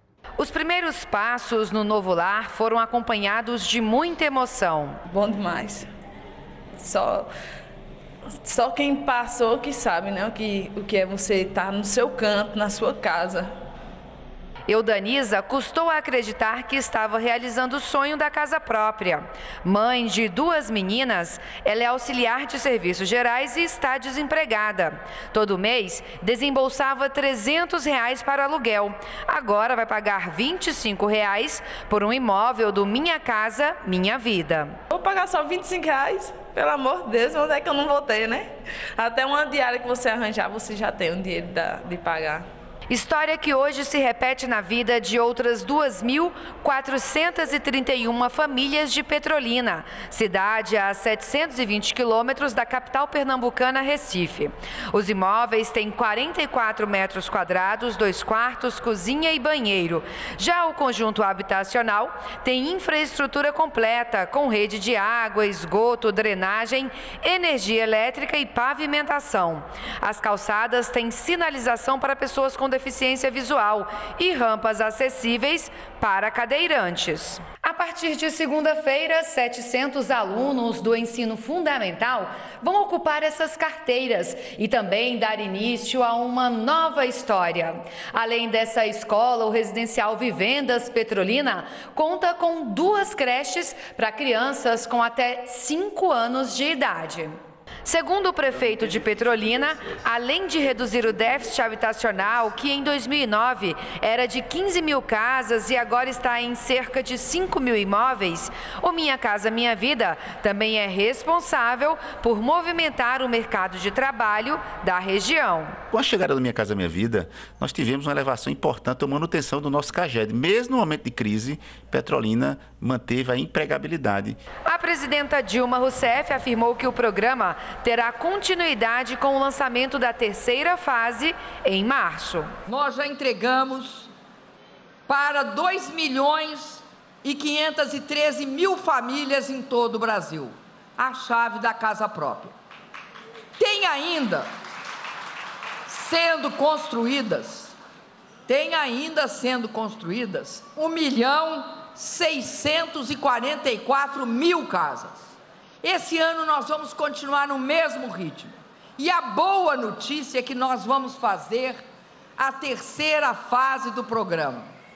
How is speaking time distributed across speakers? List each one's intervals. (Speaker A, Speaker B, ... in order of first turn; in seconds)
Speaker A: 0.4-5.0, 14.7-34.8, 42.9-97.3, 97.8-115.8, 124.7-132.5
Speaker B: 5.1-5.9, 6.8-7.3, 8.4-13.5, 34.9-42.5
Speaker C: 115.9-124.4
Speaker D: 132.7-134.1, 135.1-142.6, 143.6-144.5, 145.9-147.8, 148.5-161.8, 162.4-164.7